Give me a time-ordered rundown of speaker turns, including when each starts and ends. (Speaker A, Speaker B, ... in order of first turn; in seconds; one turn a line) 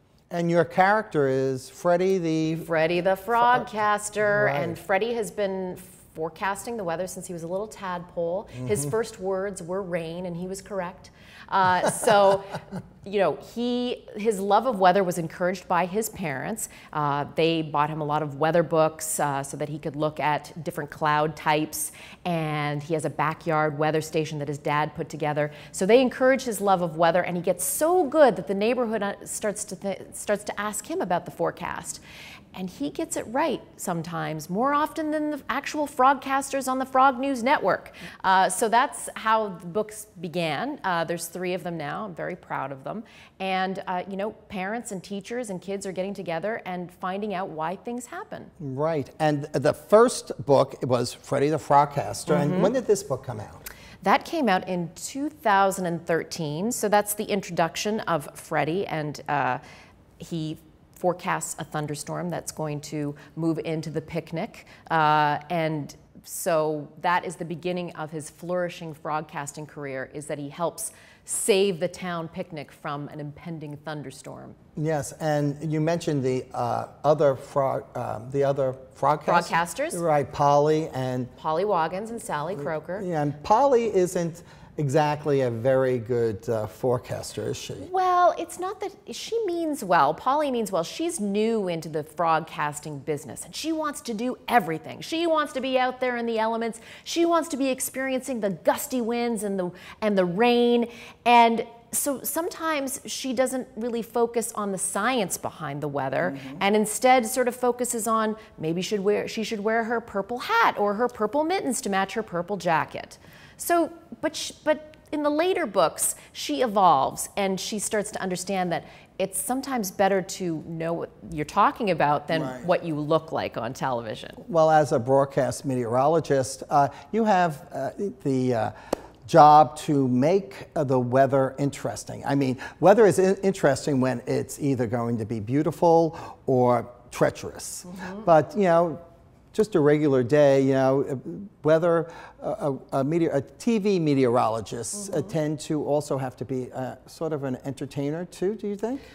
Speaker A: 0.3-2.7
Speaker B: 2.6-32.0
Speaker A: 4.2-4.8
Speaker B: 32.5-48.5
Speaker A: 48.6-53.6
Speaker B: 52.3-52.7
Speaker B: 54.0-59.6
Speaker B: 60.2-74.6
Speaker A: 74.8-81.3
Speaker B: 79.2-80.0
Speaker B: 81.3-83.0
Speaker A: 83.0-87.9
Speaker B: 87.8-124.4
Speaker A: 106.3-106.6
Speaker A: 122.3-122.7
Speaker A: 124.4-128.7
Speaker A: 129.2-139.0
Speaker B: 137.9-138.2
Speaker A: 139.5-149.0
Speaker B: 145.0-145.3